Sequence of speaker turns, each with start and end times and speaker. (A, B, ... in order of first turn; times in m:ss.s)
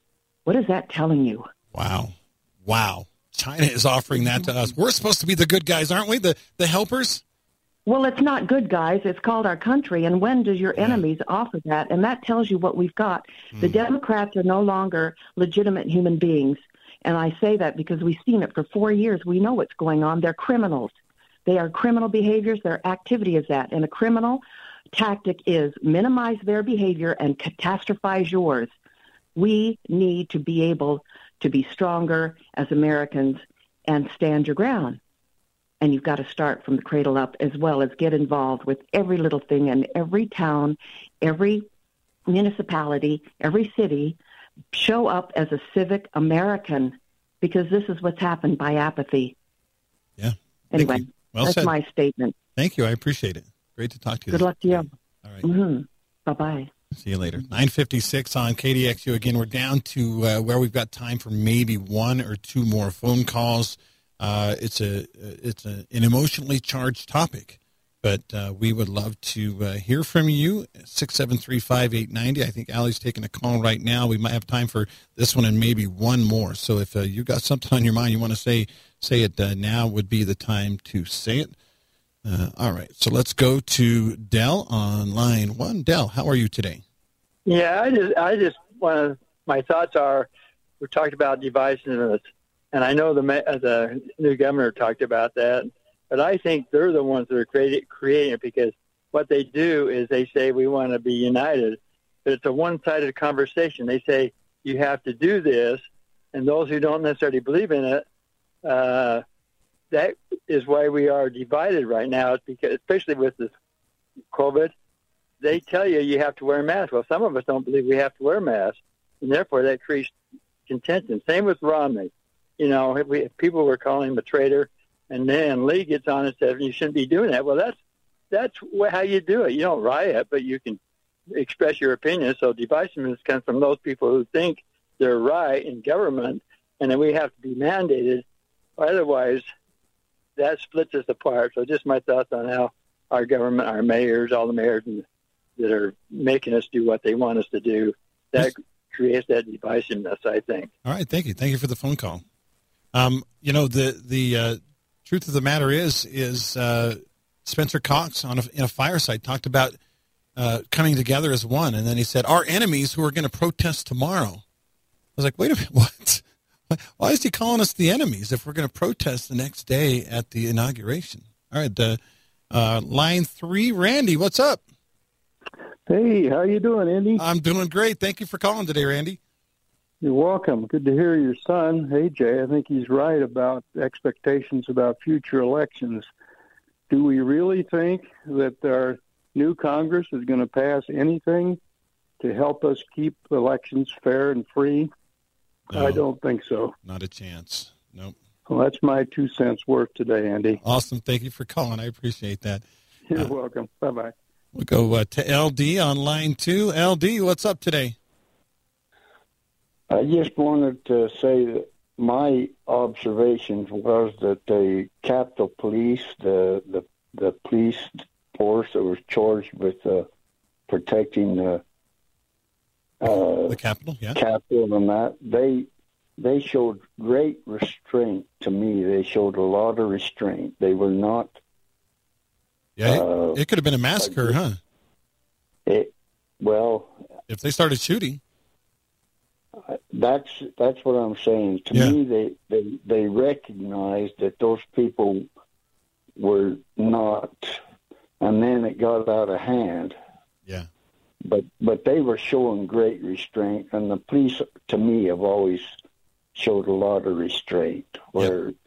0:00.4-0:01.5 A
0:01.7-0:07.2 B
0:07.8-0:20.9 A
0:10.8-0:11.0 B
0:21.4-0:28.7 A
0:29.4-0:35.0 A
0:35.8-0:41.7 A
0:42.3-0:44.2 A
0:44.7-0:49.3 A
0:50.2-0:51.7 B
0:50.7-0:52.3 A
0:52.6-0:55.4 B
0:54.3-0:54.9 A
0:55.4-0:56.7 A
0:56.9-1:21.5 B
1:22.2-1:26.8 B
1:27.4-1:30.3 C
1:30.8-1:32.2 C
1:32.7-1:45.8 C
1:46.3-1:48.0 C
1:48.6-1:49.2 C
1:49.9-1:53.5 C
1:54.3-1:54.7 C
1:55.4-2:00.1 C
2:00.7-2:07.8 C
2:08.3-2:10.8 C
2:11.3-2:18.2 C
2:18.8-2:19.4 C
2:20.4-2:25.0 C
2:25.6-2:30.7 C
2:30.8-2:32.2 B
2:32.9-2:39.8 B
2:40.4-2:44.4 B
2:45.2-2:52.0 B
2:52.5-2:54.6 B
2:55.9-2:57.2 D
2:57.2-2:59.2 B
3:00.0-3:06.1 D
3:06.9-3:11.6 D
3:12.2-3:14.9 D
3:15.7-3:16.0 B
3:15.7-3:16.7 D
3:16.8-3:18.2 B
3:18.4-3:20.6 D
3:20.6-3:23.3 B
3:23.1-3:24.1 D
3:24.5-3:28.0 B
3:29.9-3:40.1 E
3:40.7-3:41.6 E
3:43.0-3:43.6 E
3:43.1-3:44.2 B
3:44.1-3:51.4 E
3:52.8-3:54.6 B
3:52.8-3:53.4 E
3:54.0-3:54.4 E
3:55.6-3:57.0 E
3:57.3-3:58.2 B
3:59.7-4:05.3 E
4:06.2-4:07.6 E
4:08.2-4:10.0 E
4:11.2-4:15.7 E
4:16.3-4:18.5 E